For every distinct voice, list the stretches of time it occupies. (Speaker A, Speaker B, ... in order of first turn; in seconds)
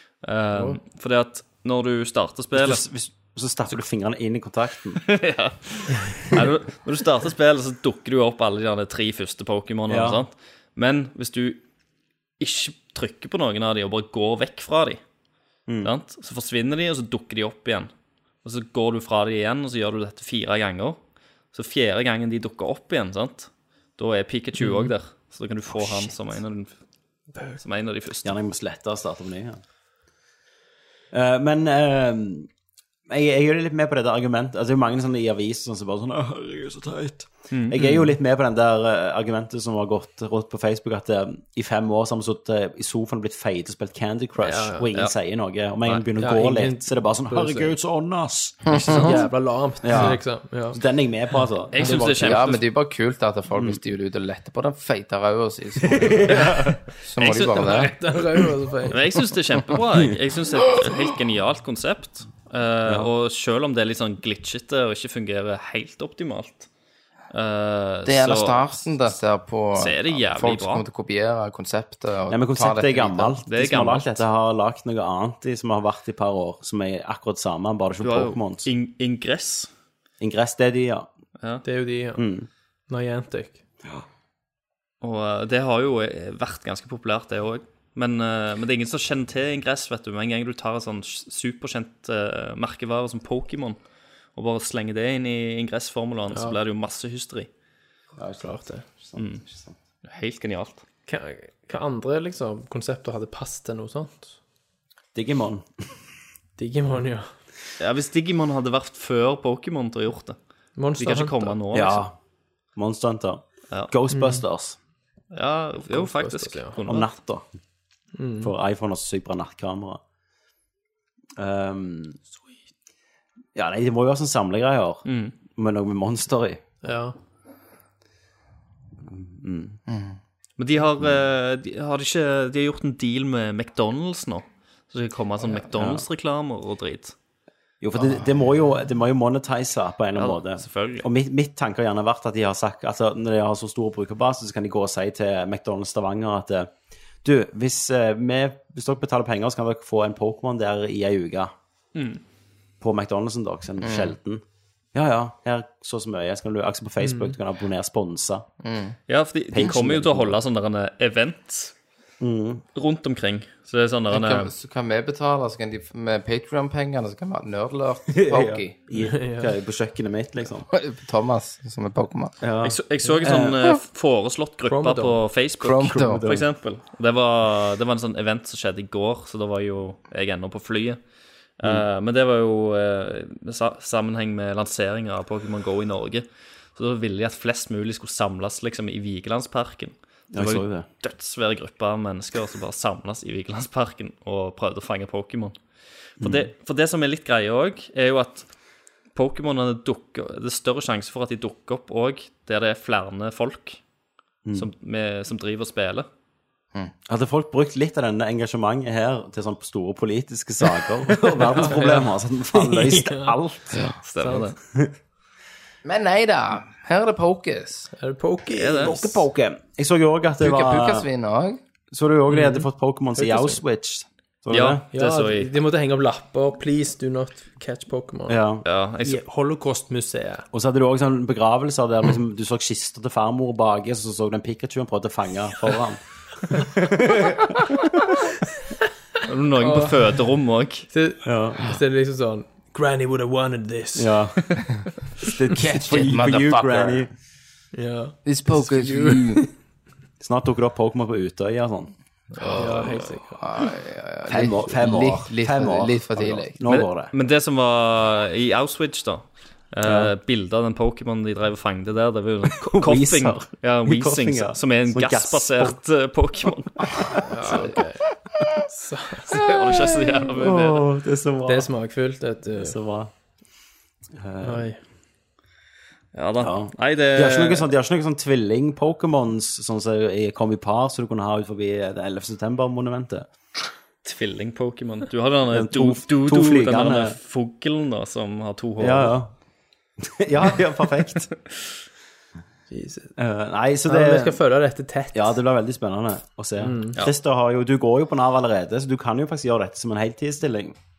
Speaker A: 0.2-2.8, 5.0-11.6, 12.4-15.0, 15.8-17.9, 18.4-21.0, 21.5-26.7, 27.6-28.3, 37.5-38.0, 51.7-52.6, 57.2-57.9, 58.9-66.7, 67.3-69.0, 69.8-70.8, 73.5-74.2, 78.0-79.7, 81.4-81.6, 85.0-93.8, 94.3-97.5, 99.2-99.4, 100.0-100.8, 107.8-110.4, 111.0-112.0, 115.3-117.1, 125.0-125.3, 130.6-137.1, 140.2-141.1, 151.9-152.2, 159.1-161.7, 162.7-164.5, 172.6-181.0, 181.6-195.5, 196.2-198.5, 199.1-203.8, 204.5-206.1, 214.0-214.6, 218.5-219.1, 224.5-225.5, 228.6-229.2, 239.2-240.9, 256.6-267.6, 269.3-270.8, 276.1-277.7, 284.0-289.1
Speaker B: 2.5-5.0, 9.9-10.2, 15.7-15.9, 28.2-29.6, 31.1-32.5, 33.1-52.5, 55.8-56.8, 59.8-60.1, 72.3-78.7, 80.2-81.1, 82.2-82.5, 98.2-99.8, 105.1-105.7, 111.7-112.1, 112.8-114.8, 116.8-117.5, 118.4-120.0, 121.4-122.2, 123.5-126.6, 129.1-129.8, 135.7-136.0, 137.8-146.7, 147.2-151.5, 152.8-154.4, 154.9-158.4, 159.5-160.4, 162.2-162.6, 168.1-170.7, 172.4-173.8, 175.8-176.4, 190.3-190.8, 196.2-196.5, 207.1-214.0, 218.8-221.1, 221.9-224.8, 228.3-228.6, 230.5-237.6, 241.2-241.7, 243.9-244.4, 245.2-247.1, 250.2-251.9, 254.3-257.1, 259.8-260.1, 262.6-265.8, 266.8-267.7, 270.2-271.7, 272.5-273.1, 274.1-274.7, 276.4-283.3, 285.5-287.2, 288.8-289.3, 290.0-291.3, 293.2-294.4, 295.1-300.8
Speaker C: 24.6-24.9, 44.4-44.9, 46.2-47.7, 48.9-50.8, 57.4-59.0, 81.6-82.2, 82.9-83.6, 96.3-96.6, 98.4-98.8, 101.1-104.3, 106.6-107.3, 110.8-111.6, 114.1-114.4, 115.9-116.8, 118.1-118.5, 126.8-127.2, 157.0-157.3, 169.0-169.5, 174.7-175.2, 211.4-213.3, 213.9-214.5, 217.9-219.2, 222.3-223.6, 224.9-228.4, 229.0-230.4, 239.6-240.0, 240.9-244.6, 247.7-249.5, 252.4-253.4, 267.2-268.0, 268.6-269.5, 271.4-272.8, 274.4-274.8, 292.7-293.1, 293.9-295.4, 296.6-297.0
Speaker D: 48.6-49.2, 51.8-57.9, 68.0-73.3, 129.9-130.2, 153.8-154.1, 158.6-158.9, 164.1-168.8, 170.7-172.3, 175.6-176.2, 215.8-217.9, 220.4-221.6, 245.5-247.1, 248.2-249.4, 252.4-256.5